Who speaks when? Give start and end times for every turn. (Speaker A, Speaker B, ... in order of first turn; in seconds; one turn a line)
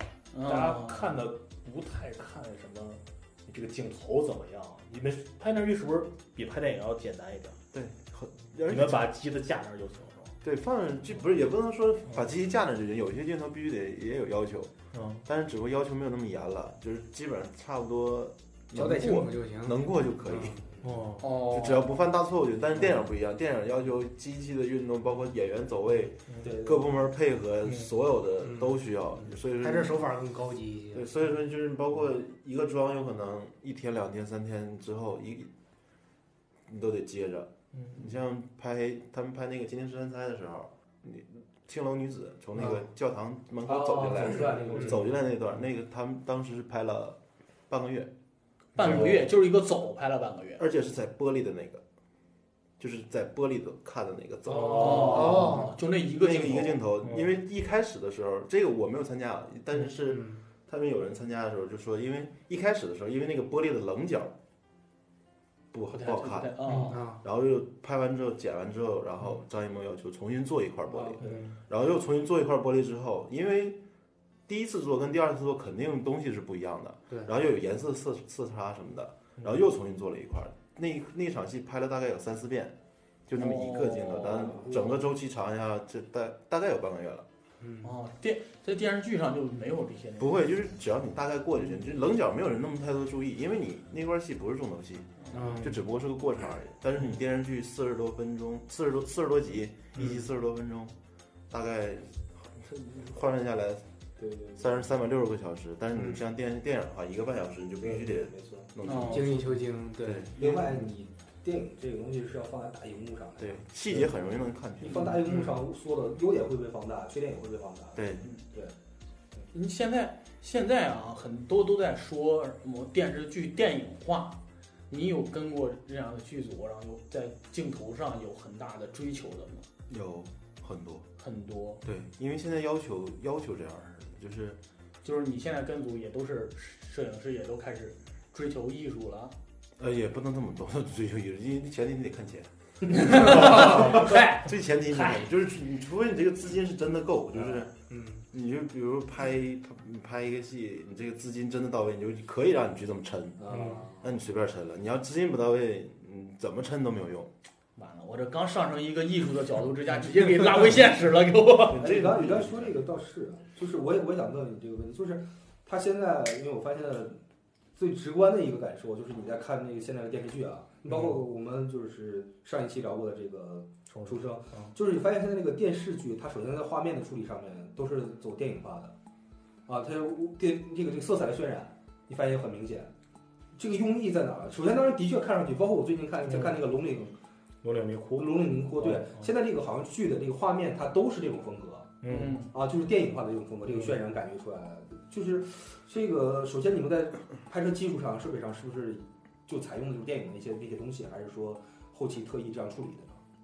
Speaker A: 0.3-1.2
Speaker B: 0.4-7.6
Speaker C: 7.7-9.1
Speaker B: 8.7-10.4
Speaker C: 10.4-14.7
Speaker B: 14.9-15.2
Speaker C: 15.2-20.6
Speaker D: 18.7-19.8
Speaker B: 20.8-21.3
Speaker A: 21.2-21.9
Speaker C: 21.4-30.1
Speaker E: 26.4-26.9
Speaker D: 29.5-31.1
Speaker C: 30.9-35.5
Speaker C: 36.7-47.2
Speaker B: 37.8-38.0
Speaker E: 43.7-45.2
Speaker C: 47.7-48.1
Speaker A: 48.8-50.6
Speaker C: 48.8-49.1
Speaker B: 48.8-49.2
Speaker C: 50.6-51.8
Speaker C: 52.8-64.3
Speaker A: 54.6-56.8
Speaker D: 54.7-55.7
Speaker B: 57.0-57.3
Speaker C: 65.7-73.8
Speaker A: 65.9-67.0
Speaker D: 66.7-67.2
Speaker E: 70.9-71.4
Speaker B: 71.2-71.5
Speaker C: 74.5-82.8
Speaker C: 83.3-87.2
Speaker A: 83.4-84.6
Speaker E: 84.4-85.0
Speaker D: 87.6-87.9
Speaker A: 87.8-90.5
Speaker C: 90.2-101.0
Speaker D: 95.3-95.8
Speaker C: 101.5-103.8
Speaker E: 104.2-104.8
Speaker C: 104.6-110.5
Speaker E: 107.8-108.7
Speaker A: 108.8-109.2
Speaker D: 108.9-110.3
Speaker E: 110.4-114.3
Speaker C: 113.4-115.2
Speaker E: 114.8-118.8
Speaker C: 118.0-118.3
Speaker A: 119.5-129.7
Speaker C: 129.9-131.1
Speaker A: 131.2-131.8
Speaker C: 131.8-134.6
Speaker A: 135.0-139.3
Speaker C: 139.8-147.7
Speaker A: 142.9-145.2
Speaker D: 147.9-148.2
Speaker C: 148.3-157.3
Speaker E: 153.4-154.2
Speaker A: 157.8-161.9
Speaker C: 161.7-162.8
Speaker E: 161.7-167.2
Speaker E: 167.8-178.9
Speaker B: 170.9-171.1
Speaker B: 173.9-174.7
Speaker E: 179.7-182.9
Speaker E: 183.6-187.2
Speaker B: 186.3-186.6
Speaker B: 187.6-189.3
Speaker E: 188.2-203.2
Speaker B: 192.0-192.4
Speaker A: 192.1-192.5